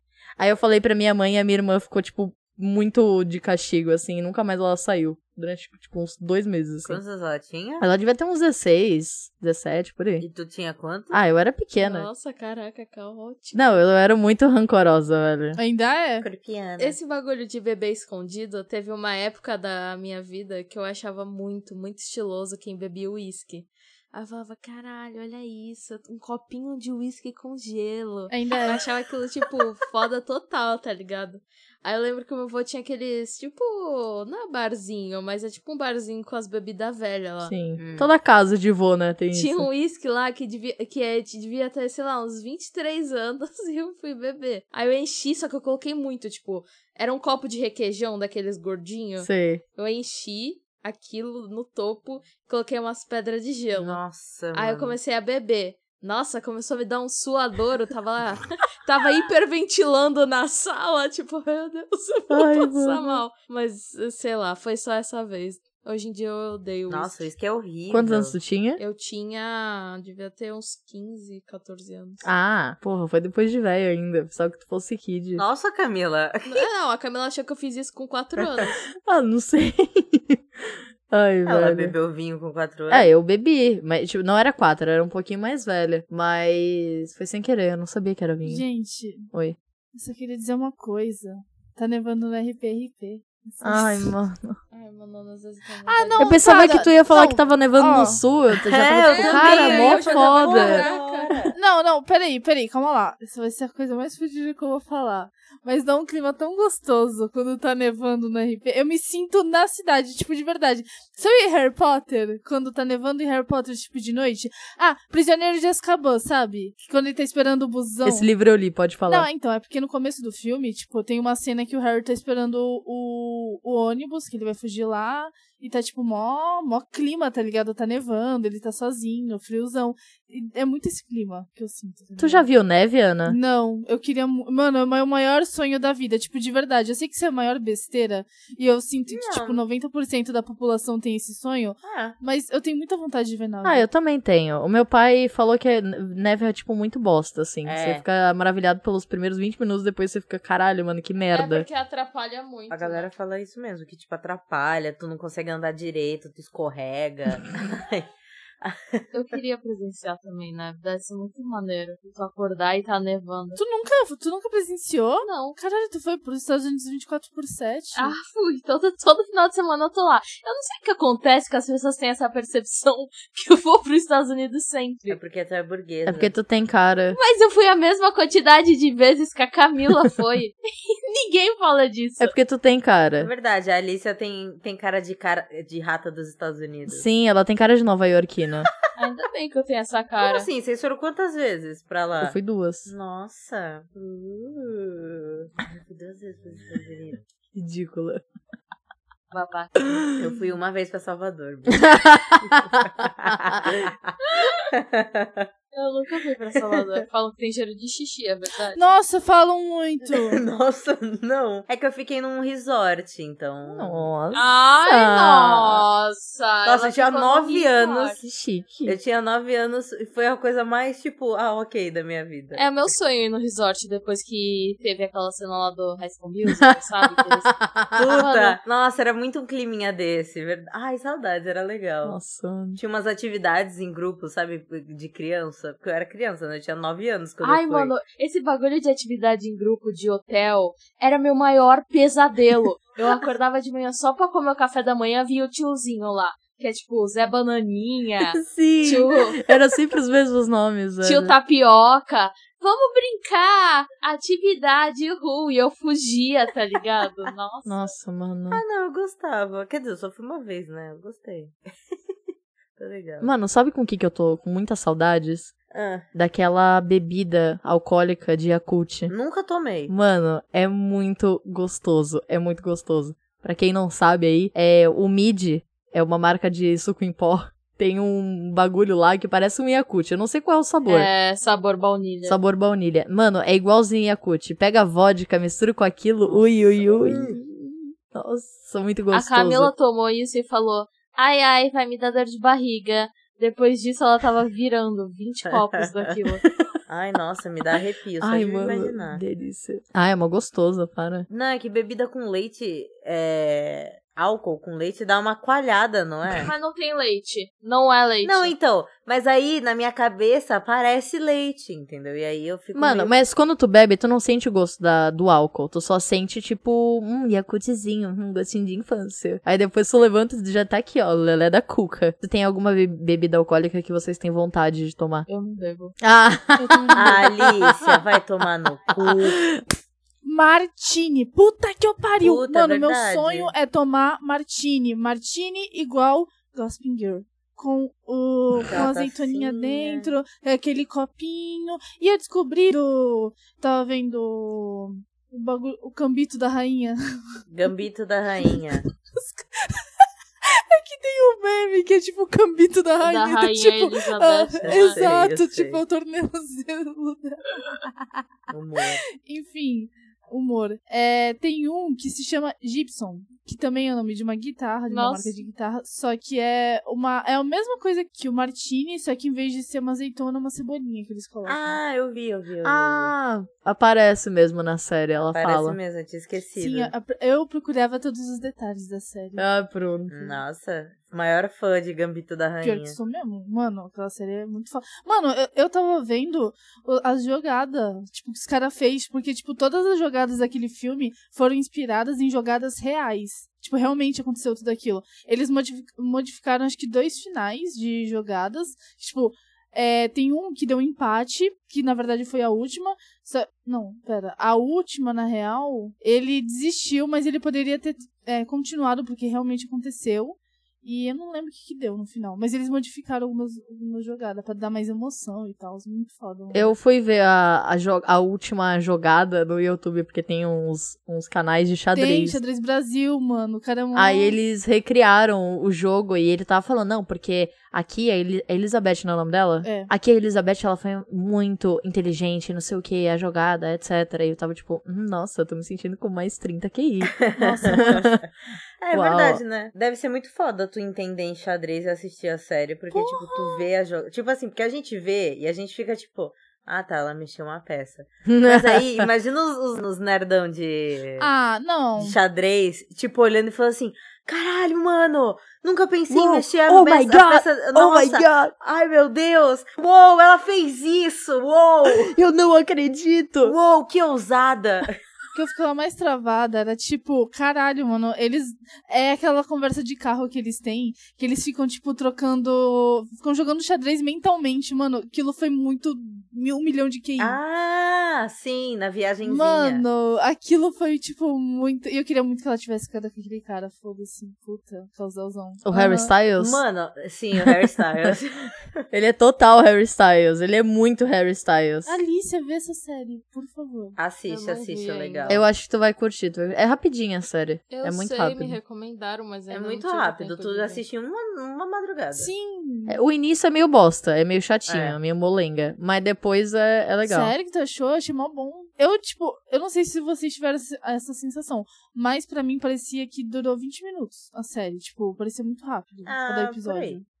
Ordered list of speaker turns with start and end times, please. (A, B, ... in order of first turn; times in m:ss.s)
0:00.4-0:07.0 A
0:06.8-0:07.8 B
0:07.8-0:10.2 A
0:10.2-0:11.2 B
0:11.1-0:12.1 A
0:11.8-0:13.6 C
0:13.5-0:15.6 A
0:15.6-0:16.2 D
0:16.2-0:17.0 B
0:16.8-0:37.5 C
0:28.3-0:28.8 D
0:37.4-0:39.7 A
0:37.8-0:38.1 B
0:39.3-0:54.0 C
0:49.2-0:49.6 A
0:53.8-0:55.0 B
0:54.5-1:07.2 C
1:02.3-1:03.2 A
1:06.9-1:08.4 B
1:07.9-1:08.8 A
1:08.8-1:12.2 C
1:12.2-1:15.4 A
1:15.4-1:16.6 B
1:16.5-1:18.9 C
1:19.0-1:20.4 A
1:21.1-1:21.9 A
1:21.4-1:23.1 B
1:22.9-1:28.6 A
1:28.4-1:29.3 D
1:29.9-1:34.1 D
1:33.6-1:34.6 A
1:34.7-1:36.6 C
1:35.8-1:38.2 D
1:36.2-1:40.8 A
1:38.6-1:41.6 B
1:39.0-1:41.3 C
1:39.3-1:40.0 D
1:41.5-1:58.3 D
1:58.0-1:59.3 A
1:59.1-2:12.4 D
2:12.2-2:13.4 A
2:13.2-2:23.8 D
2:19.1-2:19.6 B
2:21.8-2:22.2 B
2:23.6-2:31.6 A
2:27.6-2:28.0 B
2:31.3-2:33.1 C
2:32.7-2:39.1 B
2:39.1-2:43.6 C
2:43.6-2:48.1 D
2:45.2-2:45.6 C
2:47.9-2:55.2 C
2:55.1-2:56.3 B
2:56.0-2:57.2 A
2:57.1-3:02.3 C
3:02.2-3:03.3 A
3:03.2-3:07.0 B
3:06.9-3:08.7 A
3:08.9-3:10.5 C
3:10.2-3:12.3 B
3:12.2-3:12.9 A
3:12.8-3:17.2 B
3:17.5-3:18.2 A
3:19.3-3:19.7 C
3:20.2-3:24.1 B
3:21.7-3:23.0 A
3:24.2-3:24.7 C
3:24.7-3:25.5 B
3:25.7-3:28.8 C
3:26.5-3:27.0 B
3:28.7-3:30.4 D
3:30.1-3:34.1 B
3:33.6-3:35.8 A
3:34.3-3:38.2 C
3:36.6-3:38.2 B
3:38.2-3:39.0 A
3:38.8-3:42.6 B
3:42.5-3:47.5 C
3:46.6-3:48.0 A
3:47.9-3:52.2 B
3:48.1-3:48.6 C
3:52.0-3:52.8 A
3:52.8-3:57.9 B
3:57.4-4:09.4 C
4:08.3-4:11.3 A
4:11.0-4:17.8 C
4:17.6-4:18.6 A
4:18.5-4:21.5 B
4:22.8-4:23.3 B
4:23.2-4:25.5 A
4:25.7-4:26.0 B
4:26.1-4:29.1 A
4:29.1-4:29.9 B
4:29.9-4:41.1 A
4:40.8-4:42.4 C
4:42.2-4:49.7 A
4:46.2-4:47.4 B
4:49.1-4:56.4 C
4:55.4-4:56.1 B
4:56.9-4:59.2 B
4:58.2-5:01.3 A
5:01.3-5:06.5 B
5:06.3-5:08.5 C
5:08.2-5:13.2 B
5:12.7-5:25.3 A
5:25.3-5:26.0 C
5:26.0-5:28.0 A
5:26.6-5:27.2 D
5:26.9-5:29.4 B
5:29.0-5:29.6 A
5:30.2-5:47.4 D
5:32.2-5:33.5 B
5:38.7-5:40.2 B
5:47.5-5:48.8 B
5:49.1-5:49.8 D
5:50.4-5:57.6 D
5:53.0-5:55.0 C
5:54.6-5:55.8 B
5:58.5-5:59.0 B
5:59.2-6:11.8 D
6:04.9-6:05.4 C
6:11.4-6:13.1 B
6:12.6-6:15.8 A
6:15.3-6:16.9 B
6:16.6-6:19.4 D
6:19.4-6:20.4 A
6:20.1-6:23.0 B
6:22.6-6:56.7 D
6:56.5-7:02.4 A
7:01.9-7:04.4 D
7:03.9-7:18.2 A
7:09.6-7:09.9 D
7:17.1-7:18.3 B
7:17.4-7:18.0 D
7:18.8-7:31.3 B
7:18.9-7:19.4 A
7:22.9-7:23.7 D
7:28.2-7:29.1 A
7:31.2-7:32.2 D
7:32.0-7:42.1 B
7:36.1-7:38.5 A
7:41.9-7:43.5 A
7:43.4-7:44.9 B
7:45.3-7:57.4 D
7:57.2-7:59.8 B
7:59.2-8:06.1 D
8:05.6-8:06.6 A
8:06.4-8:08.5 B
8:08.9-8:12.0 A
8:11.8-8:14.0 D
8:14.0-8:15.4 B
8:14.3-8:15.4 C
8:15.3-8:18.6 A
8:17.7-8:20.8 C
8:19.5-8:22.3 B
8:22.1-8:23.0 D
8:22.9-8:27.3 A
8:24.7-8:25.0 B
8:27.0-8:37.0 D
8:36.0-8:37.0 B